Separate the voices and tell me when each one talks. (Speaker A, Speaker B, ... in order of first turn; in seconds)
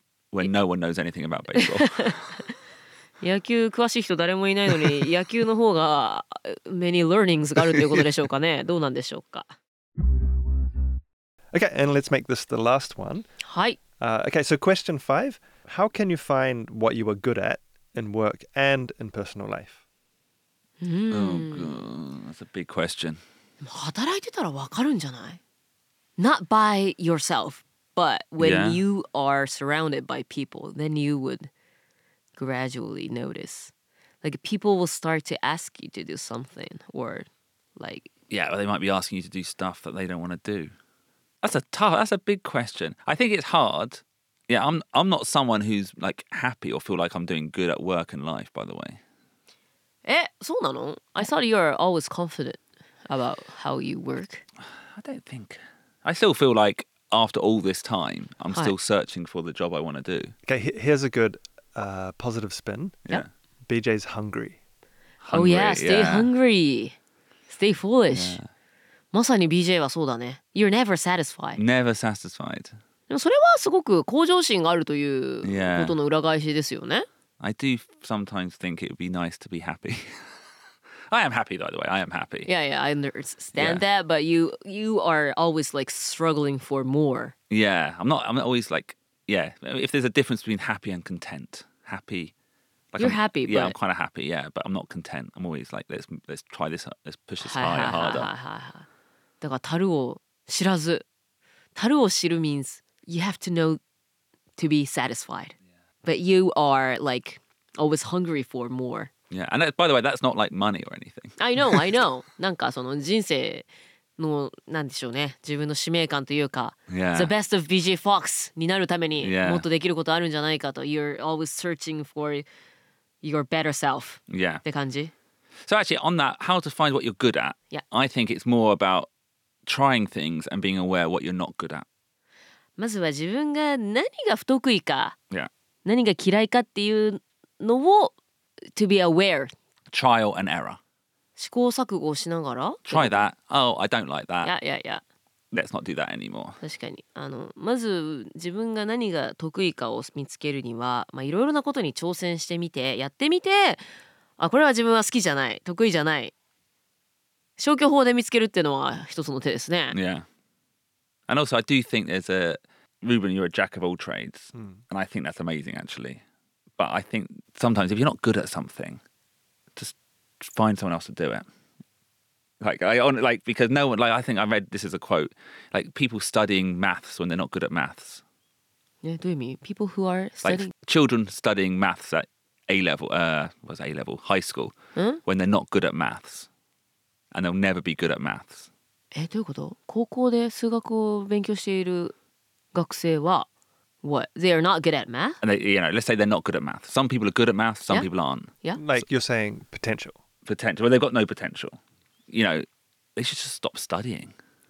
Speaker A: 0.3-2.3, 7.8-8.0, 21.1-23.2, 28.4-28.8, 38.3-40.7, 41.4-49.0, 54.9-60.3, 65.2-66.3, 68.1-68.5, 71.6-72.8, 75.4-75.9, 77.4-80.3, 81.1-82.5, 83.6-83.8, 87.5-92.3, 92.9-98.3, 109.3-112.0, 116.9-117.3, 119.2-119.6, 124.3-124.6, 125.7-129.1, 129.7-131.9, 139.9-140.8, 142.9-144.5, 145.5-146.6, 159.9-160.2, 161.3-166.2, 166.8-169.0, 169.8-171.4, 172.6-178.2, 180.4-186.5, 187.3-188.7, 195.4-198.5, 200.4-202.6, 203.2-204.3
Speaker B: 1.6-2.1, 3.2-9.5, 13.4-13.8, 20.8-21.7, 23.6-25.4, 26.2-31.5, 32.4-38.1, 50.0-54.4, 65.3-67.0, 67.5-68.4, 69.1-71.6, 73.1-77.1, 82.5-87.3, 93.0-93.8, 97.4-98.9, 99.4-101.0, 101.8-103.8, 104.6-109.1, 111.4-113.7, 114.2-122.5, 123.2-125.1, 132.8-135.2, 135.9-138.1, 138.7-139.5, 141.4-143.2, 144.4-145.0, 146.6-153.8, 154.4-156.3, 157.6-159.9, 179.0-180.7, 184.9-185.2, 189.1-192.1, 192.7-193.5, 194.0-195.4
Speaker C: 11.5-13.3, 14.0-19.8, 60.5-63.1, 63.7-64.6, 198.8-200.2